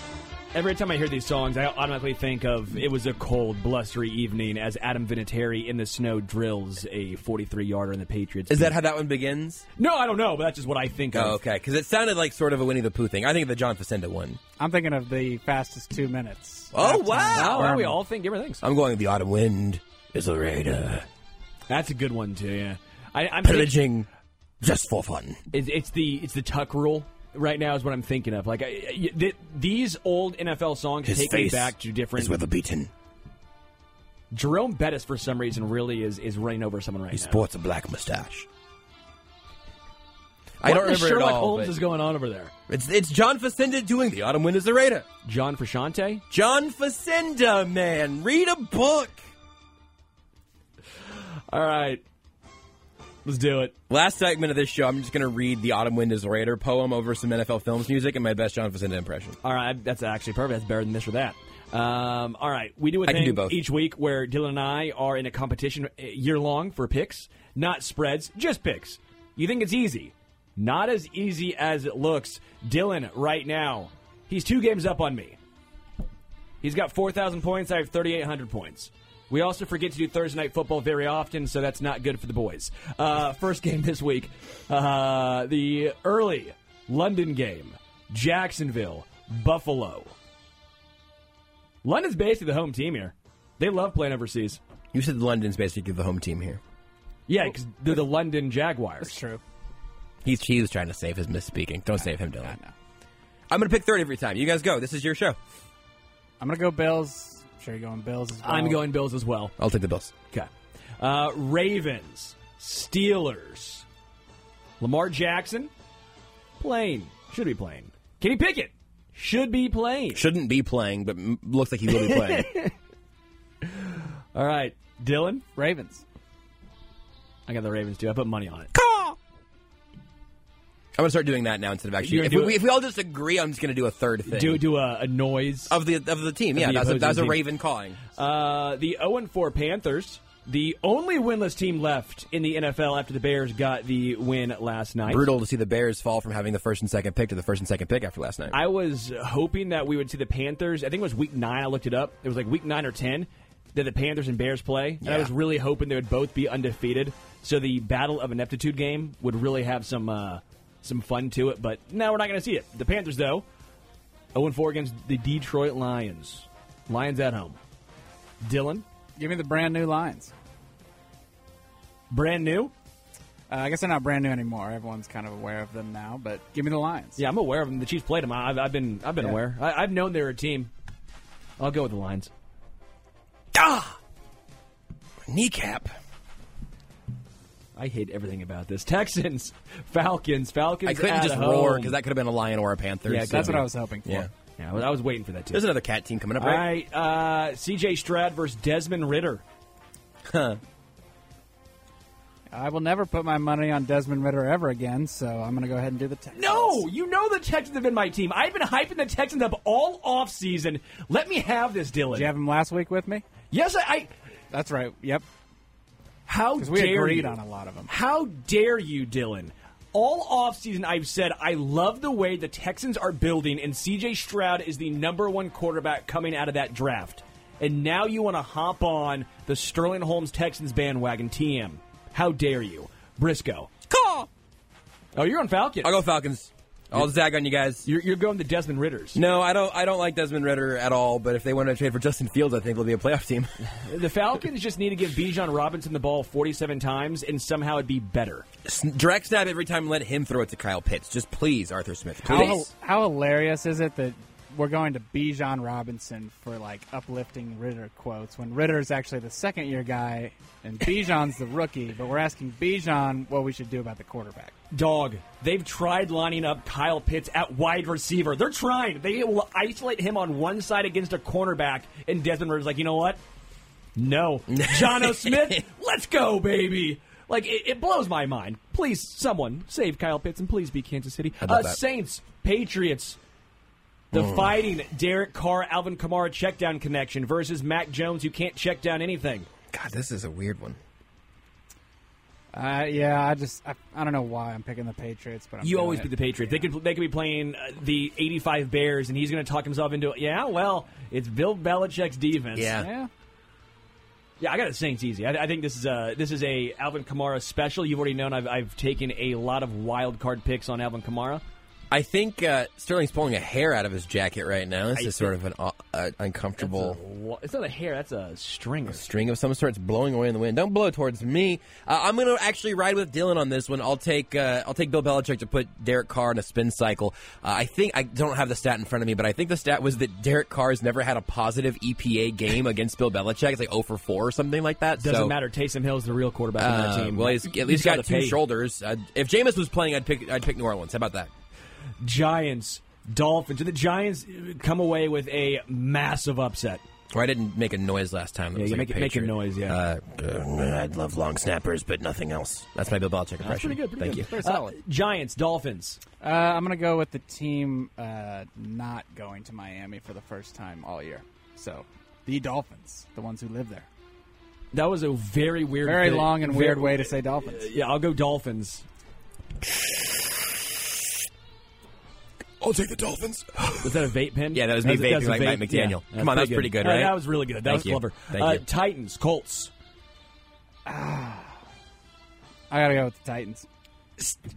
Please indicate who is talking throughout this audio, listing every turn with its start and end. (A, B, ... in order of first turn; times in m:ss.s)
0:00.5-0:08.7 A
0:08.5-0:09.6 B
0:09.8-0:11.4 A
0:11.1-0:14.4 B
0:14.6-0:18.0 C
0:16.7-0:17.8 B
0:17.3-0:18.6 A
0:18.6-0:21.0 B
0:21.7-0:23.7 A
0:23.4-0:24.1 B
0:24.6-0:25.4 B
0:25.5-0:32.4 A
0:31.0-0:32.9 B
0:34.3-0:37.4 A
0:37.1-0:38.5 B
0:40.6-0:41.8 B
0:40.6-0:42.5 A
0:42.7-0:45.0 B
0:45.2-0:46.2 A
0:46.3-0:49.2 B
0:51.5-0:52.0 A
0:53.2-0:53.7 A
0:53.9-0:59.4 B
0:59.4-1:15.4 A
1:03.0-1:03.6 B
1:16.6-1:30.1 A
1:31.8-1:34.6 A
1:34.9-1:36.6 B
1:37.3-1:39.2 A
1:39.0-1:39.4 C
1:40.2-1:42.6 B
1:42.4-1:42.7 C
1:43.5-1:45.4 B
1:46.4-1:48.8 C
1:48.4-1:49.5 A
1:49.6-1:50.1 B
1:50.3-1:53.8 A
1:54.8-1:55.7 A
1:56.6-2:00.2 A
2:00.1-2:02.5 B
2:02.0-2:02.7 A
2:03.6-2:05.4 A
2:05.6-2:06.0 C
2:07.5-2:08.7 A
2:08.7-2:09.2 B
2:11.0-2:14.6 B
2:12.0-2:12.6 A
2:14.3-2:15.8 A
2:15.7-2:18.0 B
2:16.5-2:17.4 A
2:18.1-2:25.3 A
2:25.1-2:28.6 B
2:28.5-2:43.4 A
2:35.0-2:35.3 B
2:44.3-2:47.6 A
2:48.4-2:48.8 A
2:49.2-2:50.3 C
2:52.1-2:52.7 A
2:53.5-2:57.2 C
2:57.2-3:00.7 A
3:01.6-3:02.3 A
3:03.5-3:04.0 B
3:05.3-3:05.9 B
3:07.8-3:12.0 A
3:10.8-3:14.3 B
3:13.1-3:13.6 A
3:13.3-3:14.3 C
3:14.6-3:15.7 A
3:15.5-3:16.7 B
3:16.4-3:19.4 A
3:20.2-3:20.6 B
3:22.5-3:26.8 C
3:26.3-3:32.3 A
3:32.1-3:33.2 C
3:33.5-3:34.1 A
3:34.5-3:35.2 C
3:36.3-3:37.4 A
3:36.6-3:37.9 C
3:37.9-3:53.7 A
3:53.9-3:54.3 B
3:55.1-3:56.0 A
3:55.8-3:57.8 B
3:57.8-3:59.2 A
3:59.1-4:03.5 B
4:03.7-4:08.5 A
4:08.6-4:12.7 B
4:12.2-4:24.5 C
4:12.3-4:12.6 A
4:24.7-4:33.2 A
4:34.0-4:43.2 A
4:34.5-4:35.6 B
4:41.4-4:41.8 B
4:44.1-4:49.5 A
4:44.1-4:44.6 B
4:49.7-4:50.8 B
4:52.5-4:56.6 C
4:55.6-5:02.8 A
5:02.5-5:02.9 B
5:02.8-5:03.1 C
5:04.4-5:11.4 A
5:11.9-5:17.0 B
5:14.9-5:15.3 A
5:16.6-5:19.1 A
5:18.9-5:35.3 B
5:35.0-5:38.4 A
5:36.6-5:41.3 B
5:42.0-5:46.8 A
5:47.1-5:54.3 B
5:48.5-5:49.8 A
5:53.4-5:56.0 A
5:54.3-5:54.7 C
5:56.2-6:03.9 C
6:04.7-6:08.8 A
6:05.8-6:07.7 C
6:12.6-6:18.6 B
6:13.8-6:19.7 A
6:20.8-6:21.6 C
6:22.7-6:23.7 C